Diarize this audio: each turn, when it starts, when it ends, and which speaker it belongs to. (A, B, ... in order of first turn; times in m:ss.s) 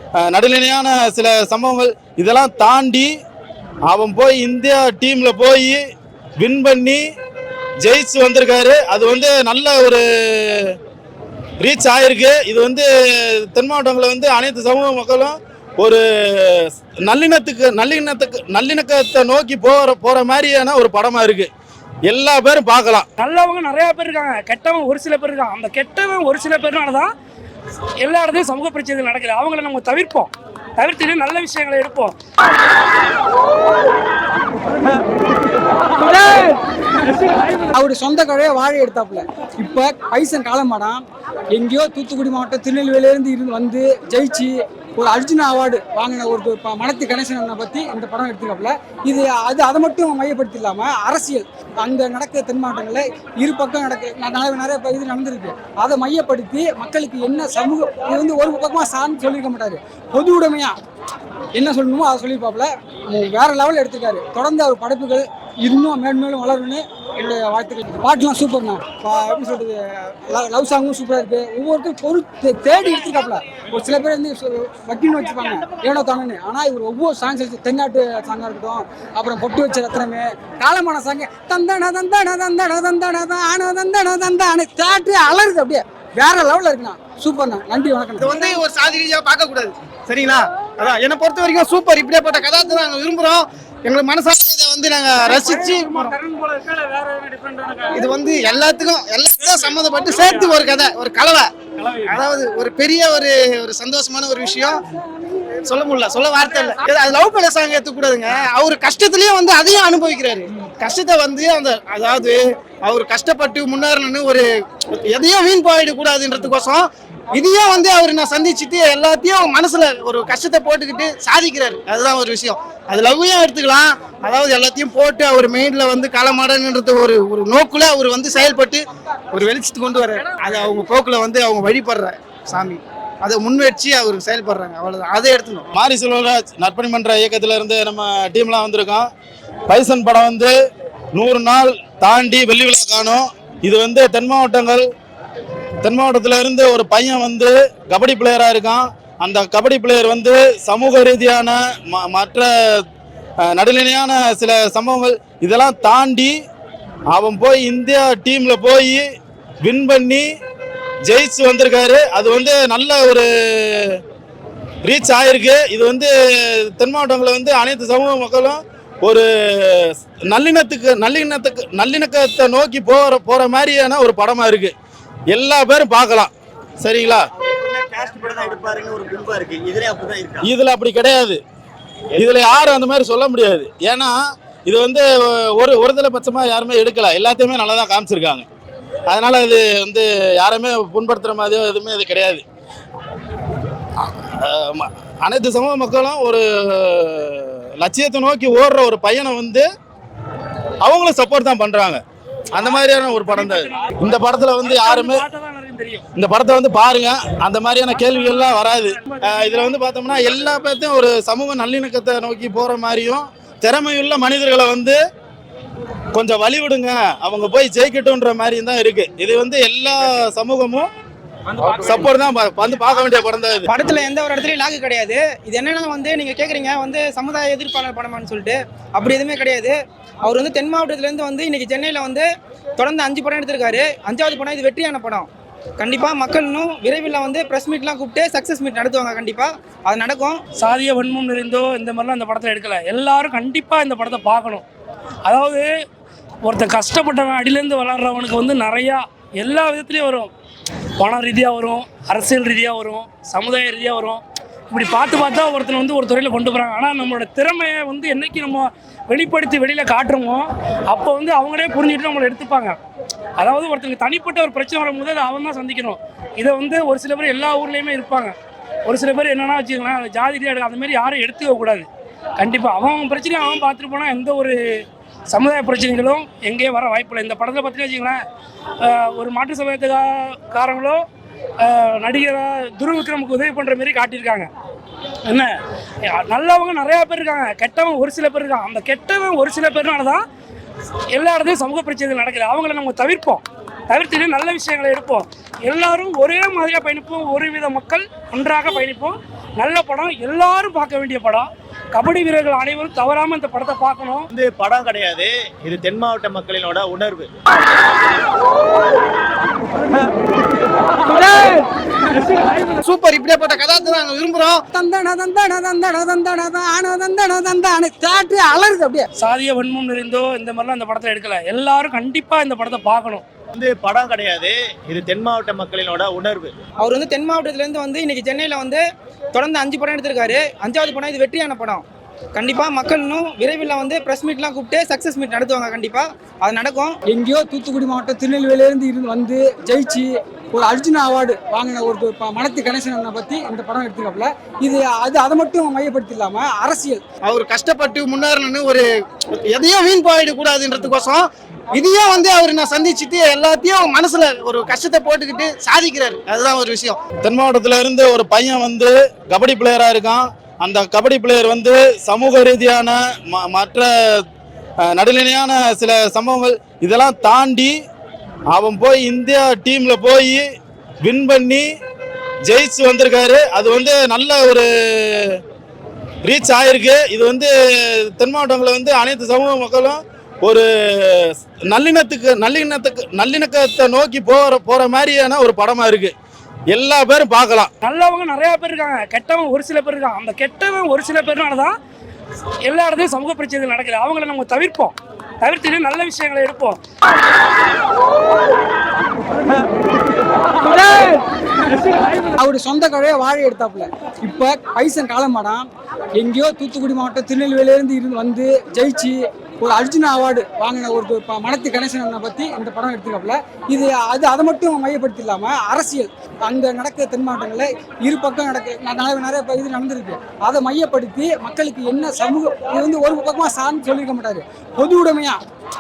0:00.2-0:03.1 A
0:03.9-0:05.8 A
0:06.4-0:07.0 A
0:07.8-0:10.8 A
0:11.6-0:21.5 A
0:22.1-0:23.1 A
0:23.2-0:27.1 B
0:28.0-0:32.1 B
0:37.7-0:41.0 C
0:41.6-1:00.8 C
1:01.6-1:28.6 C
1:28.2-1:36.2 D
1:36.4-1:37.7 B
1:37.9-1:44.8 D
1:45.6-2:15.7 D
2:15.7-2:19.1 A
2:19.7-2:20.5 A
2:21.1-2:24.9 A
2:25.8-2:32.8 A
2:33.4-2:36.4 A
2:37.1-2:39.0 A
2:39.6-2:40.3 A
2:41.0-2:44.0 A
2:44.8-2:54.7 A
2:55.3-2:57.2 A
2:57.4-3:00.4 E
3:00.4-3:01.4 A
3:02.2-3:08.4 A
3:09.1-3:12.4 A
3:14.0-3:19.7 A
3:20.8-3:25.2 A
3:23.3-3:24.1 B
3:24.6-3:26.1 B
3:26.2-3:35.0 A
3:28.0-3:29.5 B
3:36.1-3:40.9 A
3:41.7-3:43.7 A
3:43.7-3:52.3 F
3:52.8-4:00.4 F
4:00.6-4:04.6 B
4:05.3-4:05.7 B
4:06.4-4:10.3 B
4:11.0-4:22.8 B
4:23.4-4:28.3 B
4:28.9-4:31.9 B
4:32.4-4:34.6 B
4:35.3-4:38.2 B
4:38.8-4:41.0 B
4:41.6-4:44.5 B
4:45.3-4:45.5 B
4:46.1-4:50.2 B
4:51.1-5:04.3 B
5:04.3-5:07.3 E
5:12.8-5:14.6 D
5:14.7-5:19.1 C
5:19.2-5:23.2 B
5:23.5-5:26.5 E
5:26.8-5:28.8 F
5:29.3-5:37.0 F
5:37.1-5:47.0 C
5:47.2-5:48.9 D
5:49.5-5:57.0 D
5:57.2-6:04.2 A
6:04.8-6:07.8 A
6:08.5-6:10.4 A
6:11.0-6:11.7 A
6:12.4-6:15.4 A
6:16.2-6:26.1 A
6:26.7-6:27.7 A
6:27.8-6:31.8 B
6:32.7-6:36.8 B
6:42.4-7:05.4 C